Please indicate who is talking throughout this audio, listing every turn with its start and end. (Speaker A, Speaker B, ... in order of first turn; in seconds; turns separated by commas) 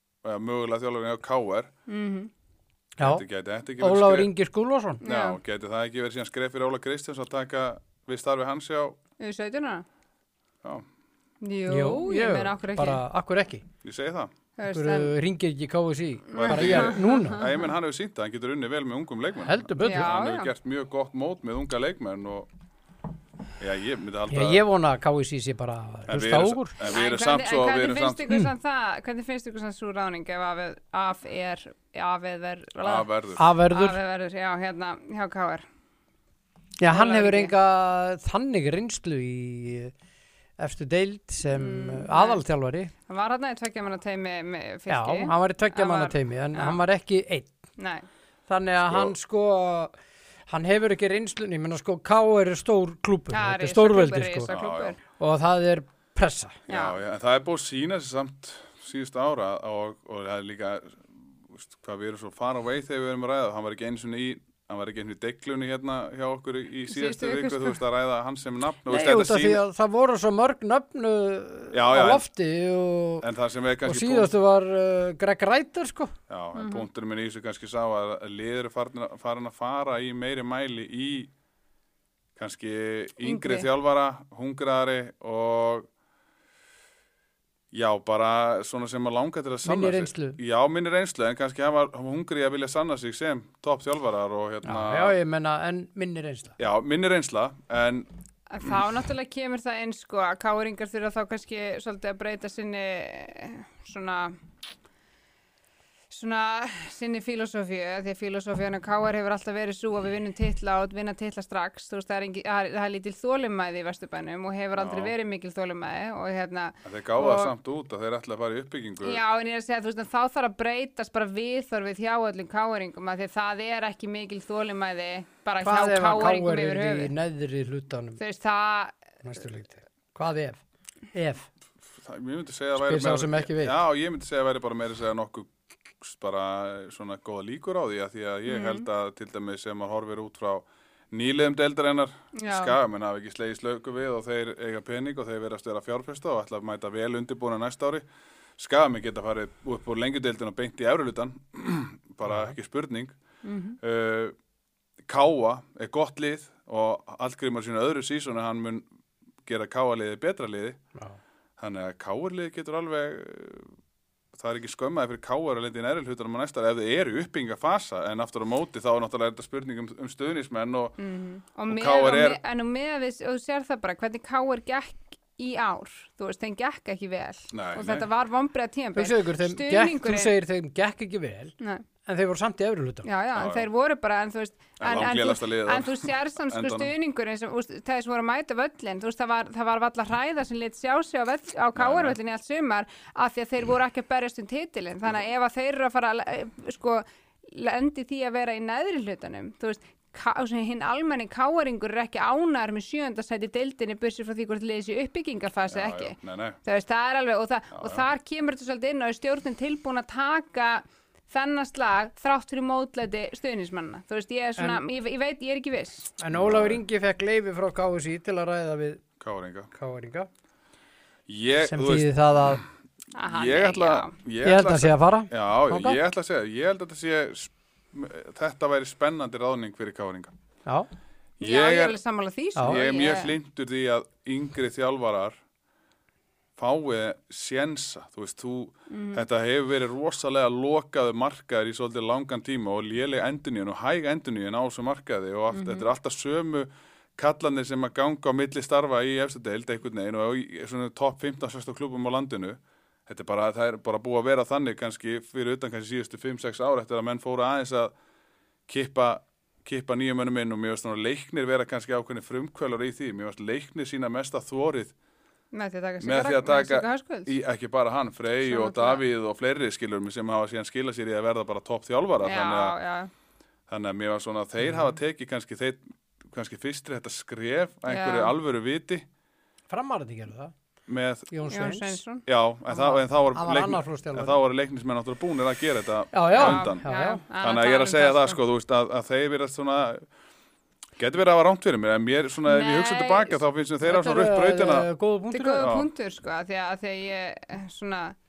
Speaker A: 0.2-1.7, Speaker B: 1.9-2.3, Speaker C: 3.0-3.2, Speaker A: 3.0-4.3, Speaker C: 3.8-5.0, Speaker B: 5.0-5.4, Speaker A: 5.0-9.0, Speaker B: 9.2-9.8, Speaker B: 11.4-13.0, Speaker C: 11.7-13.6, Speaker A: 13.8-14.3, Speaker B: 14.6-15.1, Speaker C: 14.7-17.5, Speaker B: 16.3-17.7, Speaker A: 16.3-22.5, Speaker C: 19.4-20.1, Speaker B: 19.8-20.5, Speaker A: 23.6-24.6, Speaker C: 24.3-26.7, Speaker A: 26.1-28.3, Speaker B: 26.8-35.6, Speaker A: 32.8-33.5, Speaker C: 33.4-34.0, Speaker C: 36.8-39.9, Speaker B: 36.9-37.5, Speaker C: 40.6-42.9, Speaker B: 41.5-42.4, Speaker B: 43.1-46.8, Speaker C: 44.9-47.5, Speaker B: 47.8-48.0, Speaker C: 48.5-49.9, Speaker A: 48.9-49.1, Speaker C: 50.5-54.5, Speaker B: 53.3-55.0, Speaker A: 54.5-55.0, Speaker C: 55.1-56.6, Speaker A: 56.7-69.6, Speaker B: 56.7-57.0, Speaker B: 66.9-67.8, Speaker C: 68.9-73.3, Speaker A: 71.7-72.2, Speaker A: 73.2-74.3, Speaker C: 73.8-76.1, Speaker A: 76.3-81.3, Speaker B: 76.5-76.8, Speaker A: 82.3-85.9, Speaker B: 83.2-83.7, Speaker A: 87.7-95.2, Speaker C: 89.6-90.4, Speaker C: 94.6-96.5, Speaker A: 96.6-98.1, Speaker B: 98.5-104.3, Speaker B: 106.1-117.5, Speaker A: 114.8-115.2, Speaker A: 116.8-119.2, Speaker B: 119.0-127.1, Speaker C: 125.6-128.2, Speaker B: 128.2-129.0, Speaker C: 129.2-130.6, Speaker C: 131.1-131.5, Speaker A: 132.0-135.5, Speaker C: 132.7-133.8, Speaker A: 136.0-148.1, Speaker B: 138.4-138.8, Speaker B: 142.4-142.8, Speaker A: 148.6-153.2, Speaker C: 152.3-152.5, Speaker B: 153.4-153.8, Speaker A: 153.8-154.3, Speaker A: 155.0-158.8, Speaker A: 159.4-160.8, Speaker A: 161.6-163.7, Speaker A: 164.3-171.0, Speaker B: 171.0-180.3, Speaker A: 171.7-172.4, Speaker A: 177.5-178.1, Speaker C: 178.9-181.5, Speaker C: 182.1-183.1, Speaker B: 183.0-216.1, Speaker A: 183.3-183.7, Speaker A: 184.8-186.9, Speaker A: 191.7-192.2, Speaker A: 205.7-206.6, Speaker A: 207.7-208.0, Speaker C: 216.2-219.0, Speaker A: 216.3-216.8, Speaker A: 219.2-219.7, Speaker C: 219.7-220.3, Speaker A: 221.3-222.6, Speaker C: 221.6-222.6, Speaker B: 223.2-224.1, Speaker A: 223.2-230.3, Speaker C: 224.4-226.0, Speaker A: 231.4-232.0, Speaker B: 231.4-233.4, Speaker C: 232.6-232.8, Speaker A: 232.6-235.4, Speaker A: 236.6-257.9, Speaker B: 238.9-239.2, Speaker B: 245.5-245.8, Speaker A: 258.7-264.9, Speaker B: 265.5-267.3, Speaker A: 266.0-272.8, Speaker B: 268.4-269.0, Speaker B: 272.2-273.1, Speaker A: 273.7-279.1, Speaker C: 274.6-274.9, Speaker B: 277.9-278.3, Speaker C: 279.7-280.5, Speaker A: 280.9-281.3, Speaker C: 281.3-282.0, Speaker B: 281.5-282.2, Speaker A: 282.2-286.9, Speaker C: 282.7-284.4, Speaker C: 286.1-287.2, Speaker B: 286.3-288.4, Speaker A: 287.4-290.1, Speaker A: 291.0-294.9, Speaker B: 292.4-293.4, Speaker C: 293.8-295.7, Speaker B: 295.3-298.1, Speaker A: 295.6-295.9